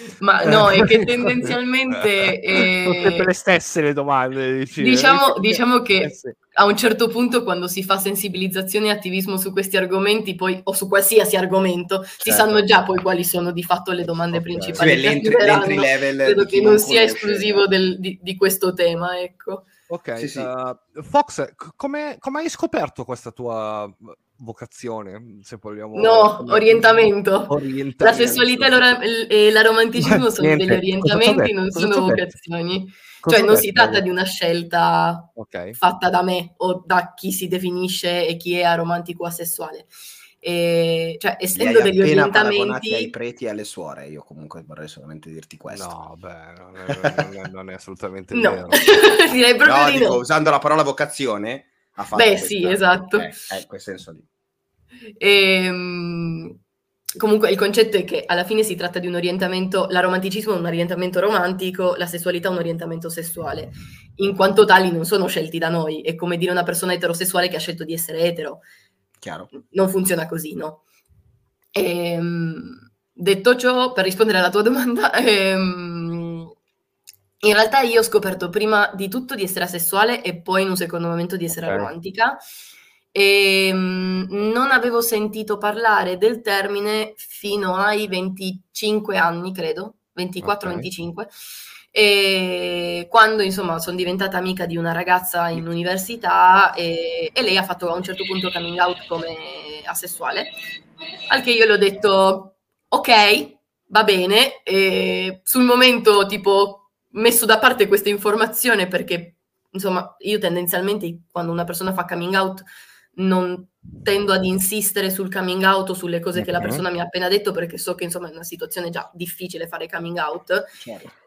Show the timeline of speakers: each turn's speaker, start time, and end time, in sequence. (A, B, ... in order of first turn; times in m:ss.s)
0:00.2-0:03.3 A
0:00.4-0:06.4 B
0:04.8-0:19.7 A
0:12.2-0:12.6 C
0:14.3-0:15.0 B
0:14.8-0:17.6 C
0:19.9-0:28.8 B
0:20.2-0:20.5 C
0:26.0-0:39.9 A
0:30.0-0:32.2 B
0:33.2-0:34.0 B
0:35.4-0:35.8 B
0:40.4-0:43.1 A
0:41.5-0:46.0 C
0:45.7-0:48.9 B
0:46.9-0:47.3 C
0:48.3-0:50.2 A
0:49.6-0:54.3 C
0:52.2-0:53.4 A
0:55.2-0:56.6 A
0:57.2-1:08.6 A
1:09.2-1:09.5 C
1:09.6-1:10.8 A
1:11.7-1:16.5 A
1:17.4-1:22.4 A
1:21.6-1:21.9 B
1:23.1-1:31.3 A
1:30.4-1:30.9 B
1:31.9-1:40.5 A
1:41.3-1:52.6 A
1:53.2-2:00.7 A
1:56.4-1:56.8 B
2:00.8-2:01.1 C